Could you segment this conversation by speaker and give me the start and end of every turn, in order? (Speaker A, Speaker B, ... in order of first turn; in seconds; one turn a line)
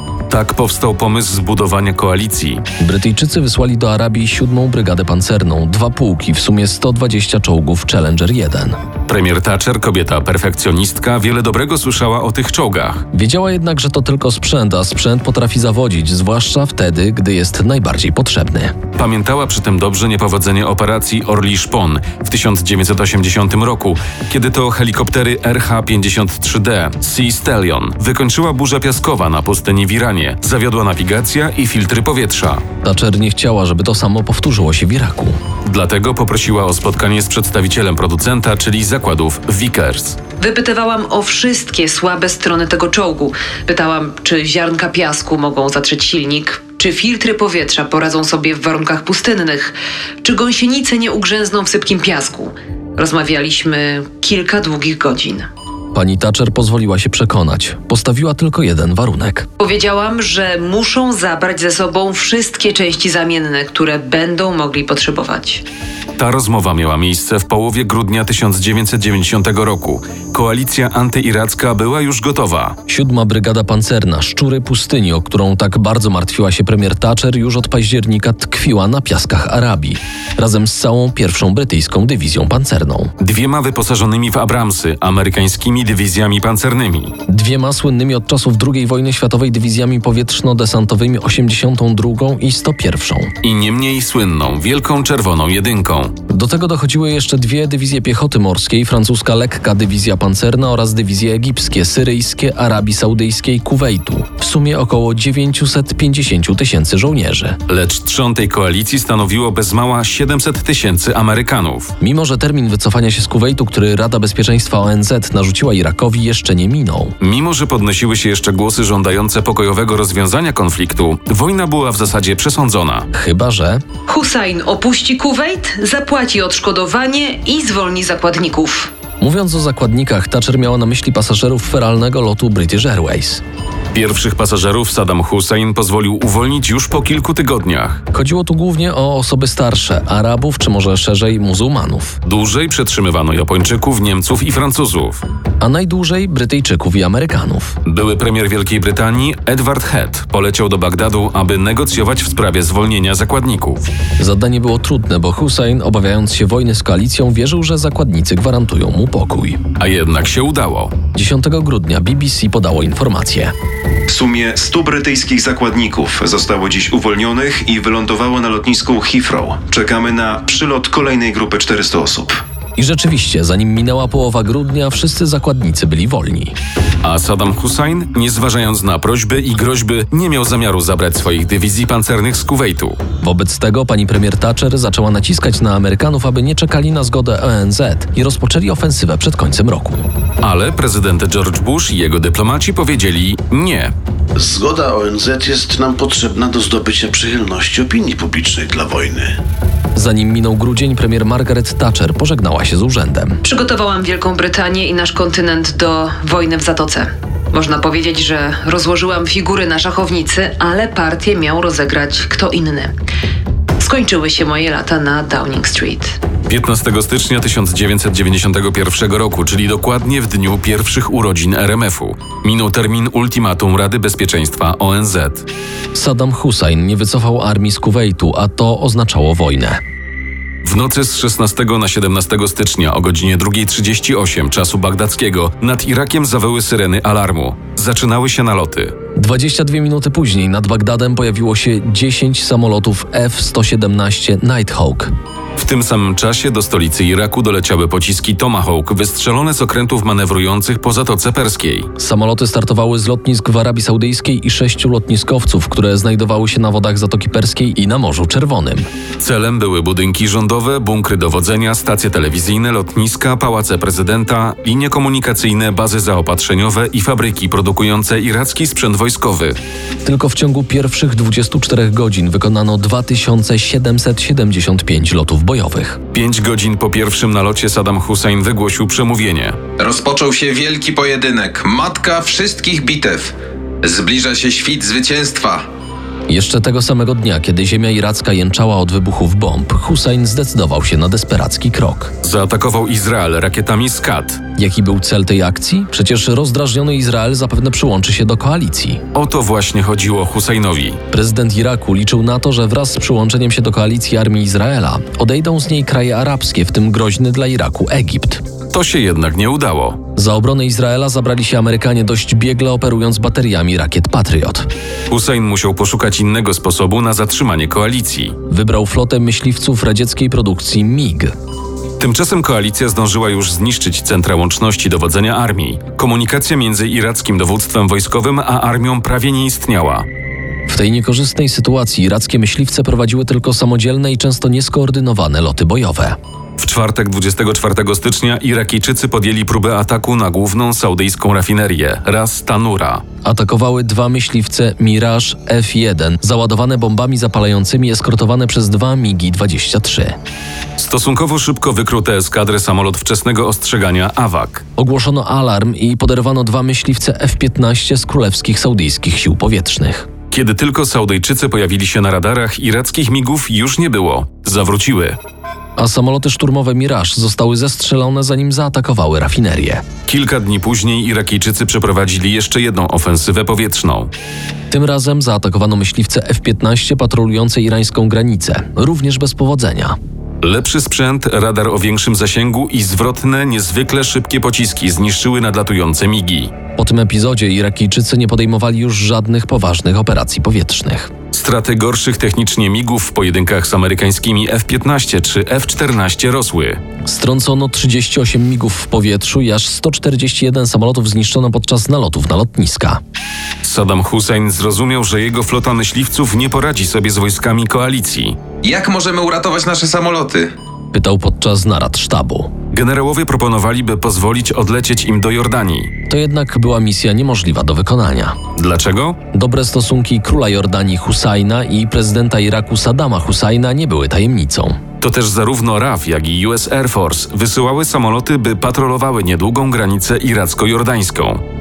Speaker A: 0.3-2.6
Speaker B: 2.8-8.8
Speaker A: 9.1-13.1
Speaker B: 13.1-18.8
Speaker A: 18.9-32.6
Speaker B: 32.8-35.4
Speaker A: 35.6-40.2
Speaker C: 40.4-55.5
Speaker B: 55.9-59.5
Speaker C: 59.6-65.6
Speaker A: 66.2-72.8
Speaker B: 72.9-83.1
Speaker A: 83.2-87.2
Speaker B: 87.3-93.3
Speaker A: 93.4-96.2
Speaker B: 96.3-107.6
Speaker A: 107.7-111.9
Speaker B: 112.0-117.2
Speaker A: 117.2-123.1
Speaker B: 123.1-123.8
Speaker C: 124.1-128.9
Speaker B: 129.2-133.4
Speaker A: 133.9-138.0
Speaker B: 138.1-142.2
Speaker A: 142.2-145.2
Speaker B: 145.6-147.8
Speaker A: 147.9-153.9
Speaker B: 154.2-159.6
Speaker A: 159.8-160.9
Speaker B: 161.1-163.5
Speaker D: 164.1-172.4
Speaker B: 172.8-176.6
Speaker A: 177.0-183.0
Speaker B: 183.2-190.0
Speaker A: 190.4-193.9
Speaker E: 194.5-199.3
Speaker B: 200.0-203.4
Speaker C: 203.4-212.9
Speaker C: 213.8-216.2
Speaker A: 216.5-225.4
Speaker B: 225.9-229.8
Speaker A: 230.6-238.9
Speaker B: 239.2-245.1
Speaker A: 245.6-251.9
Speaker B: 252.0-258.9
Speaker A: 259.2-269.6
Speaker B: 270.1-276.0
Speaker A: 276.1-279.6
Speaker F: 279.8-285.7
Speaker B: 286.3-292.1
Speaker A: 292.2-294.4
Speaker B: 294.6-299.0
Speaker A: 299.1-301.0
Speaker B: 301.1-308.4
Speaker A: 308.7-310.0
Speaker B: 310.1-314.7
Speaker A: 315.1-318.4
Speaker B: 318.5-321.3
Speaker A: 322.0-330.1
Speaker B: 330.7-336.2
Speaker A: 336.6-343.0
Speaker B: 343.2-350.2
Speaker A: 350.8-354.7
Speaker B: 354.8-360.1
Speaker A: 360.3-365.2
Speaker B: 365.8-369.9
Speaker A: 370.1-374.1
Speaker B: 374.7-380.0
Speaker A: 380.4-386.5
Speaker B: 386.8-391.1
Speaker A: 391.3-396.8
Speaker B: 397.1-403.0
Speaker A: 403.6-408.4
Speaker F: 408.6-410.5
Speaker B: 410.9-412.5
Speaker A: 412.7-415.9
Speaker B: 416.1-418.4
Speaker A: 418.6-419.2
Speaker B: 419.3-424.8
Speaker A: 425.0-431.4